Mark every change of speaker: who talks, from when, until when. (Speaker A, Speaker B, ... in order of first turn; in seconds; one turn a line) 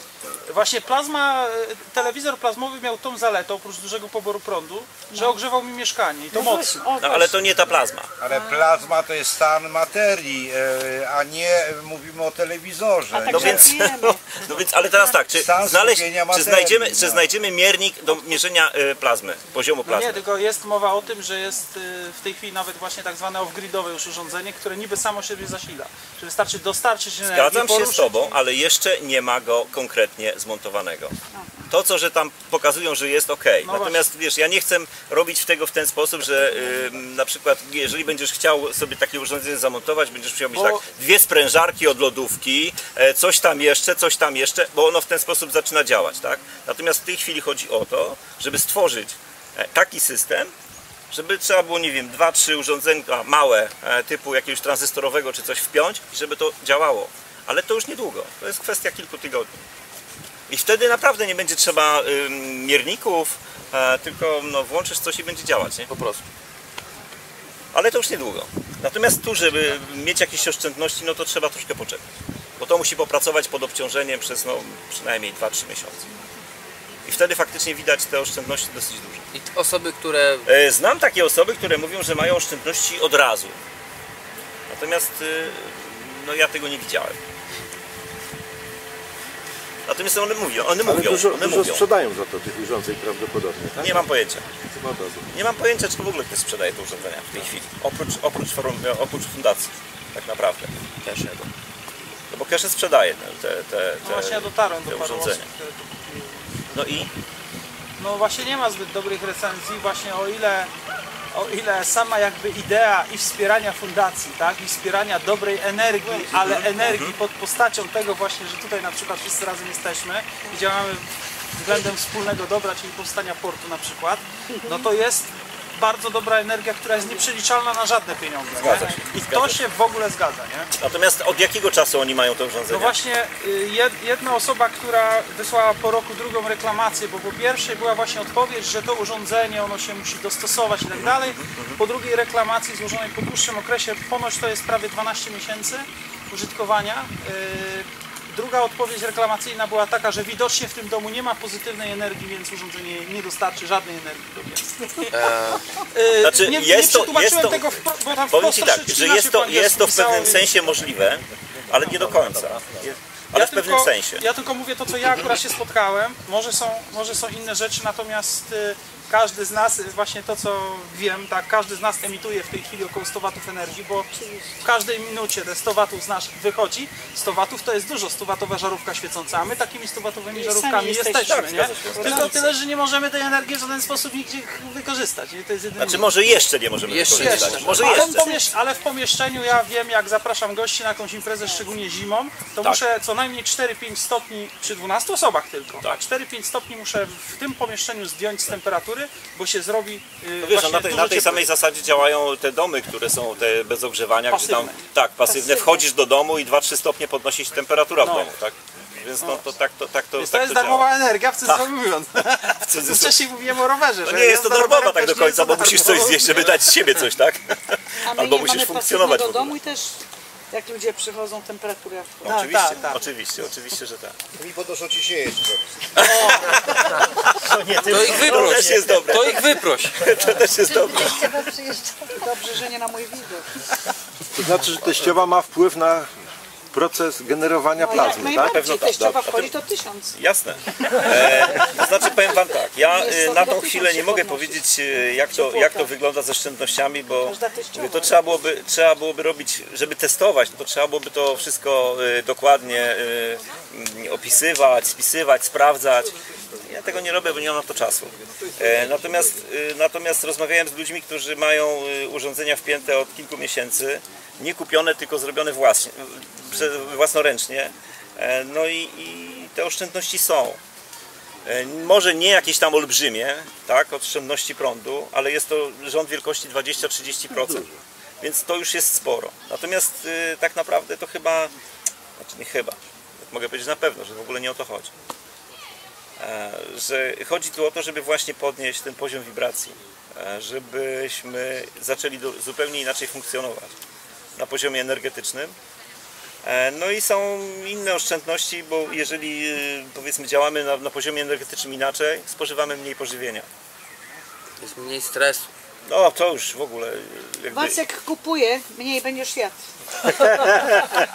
Speaker A: 0.5-6.8
Speaker B: 5.1-5.4
Speaker B: 6.3-7.4
Speaker C: 7.0-8.1
Speaker D: 8.2-13.7
Speaker B: 13.1-14.2
Speaker C: 13.3-20.2
Speaker D: 15.3-17.2
Speaker A: 19.8-28.2
Speaker C: 27.2-31.1
Speaker C: 31.7-50.5
Speaker A: 33.6-34.1
Speaker A: 40.5-40.9
Speaker C: 51.1-59.6
Speaker C: 60.5-65.9
Speaker E: 65.9-66.2
Speaker C: 67.7-72.0
Speaker C: 72.6-76.0
Speaker C: 77.0-79.2
Speaker E: 79.3-80.5
Speaker C: 80.5-83.6
Speaker C: 84.7-87.2
Speaker C: 89.9-91.8
Speaker F: 90.8-94.1
Speaker C: 93.8-94.5
Speaker F: 94.7-95.3
Speaker C: 95.3-101.5
Speaker C: 102.3-105.5
Speaker A: 104.0-106.4
Speaker C: 106.7-107.1
Speaker A: 108.0-110.7
Speaker A: 111.3-130.7
Speaker C: 116.2-117.1
Speaker C: 128.6-129.6
Speaker C: 130.8-133.0
Speaker A: 132.7-154.7
Speaker C: 140.9-141.8
Speaker E: 155.1-155.6
Speaker A: 155.9-160.5
Speaker C: 156.2-157.7
Speaker C: 158.3-164.2
Speaker A: 163.3-174.1
Speaker B: 174.1-174.5
Speaker A: 174.6-186.4
Speaker B: 180.3-182.5
Speaker C: 181.2-182.5
Speaker C: 185.8-188.3
Speaker E: 186.8-188.0
Speaker A: 187.1-201.4
Speaker B: 187.8-188.4
Speaker C: 200.4-210.9
Speaker A: 204.3-204.8
Speaker A: 208.0-208.3
Speaker A: 210.2-216.4
Speaker C: 212.5-213.2
Speaker C: 214.0-219.5
Speaker B: 218.0-219.9
Speaker B: 220.5-222.2
Speaker C: 222.2-224.2
Speaker A: 222.2-223.0
Speaker D: 224.4-225.6
Speaker C: 225.9-231.5
Speaker A: 226.1-226.4
Speaker E: 227.9-230.0
Speaker B: 231.0-233.5
Speaker F: 234.3-236.1
Speaker F: 236.7-239.2
Speaker B: 237.8-240.2
Speaker C: 238.1-239.5
Speaker C: 240.1-256.1
Speaker B: 242.9-244.6
Speaker B: 245.3-245.9
Speaker B: 247.2-248.1
Speaker C: 256.6-270.6
Speaker C: 271.4-277.7
Speaker F: 277.4-277.6
Speaker C: 278.2-281.5
Speaker C: 282.2-284.9
Speaker C: 286.2-293.7
Speaker C: 294.4-295.5
Speaker C: 296.4-303.5
Speaker E: 304.6-305.5
Speaker C: 305.9-307.8
Speaker B: 307.5-309.5
Speaker B: 310.1-310.7